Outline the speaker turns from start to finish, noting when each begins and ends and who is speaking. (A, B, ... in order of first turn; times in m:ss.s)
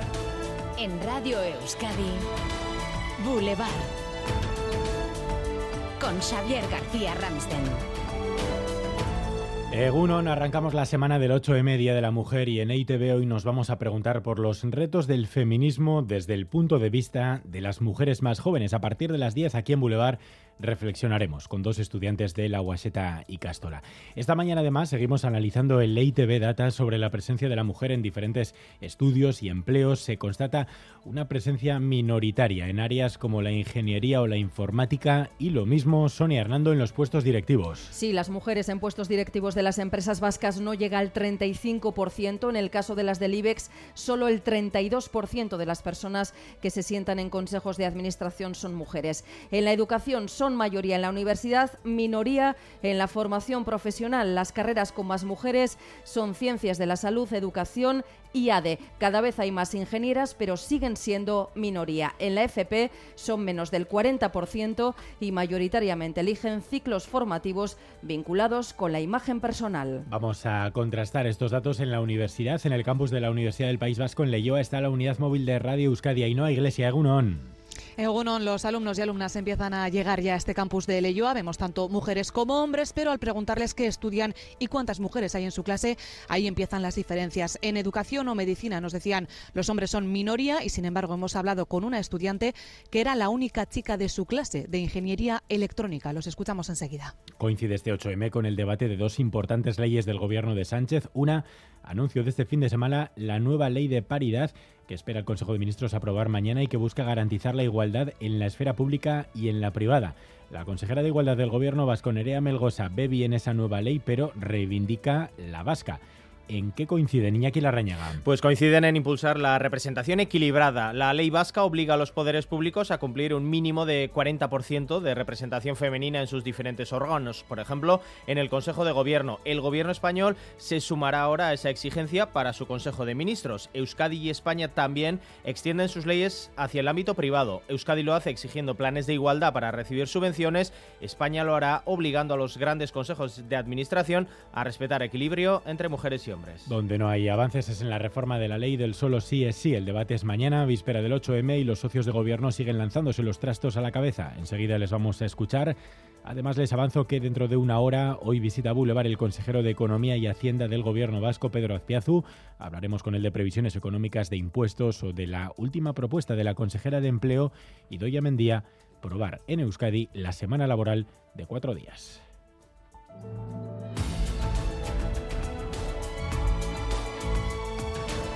0:00.8-0:02.2 A
0:03.2-0:03.9 A
0:06.0-0:07.8 A
0:09.7-0:37.9 B
0:37.9-1:10.0 C
1:10.1-1:17.5 B
1:18.0-1:37.1 D
1:37.4-1:58.2 B
1:58.2-2:26.7 E
2:26.6-2:52.2 B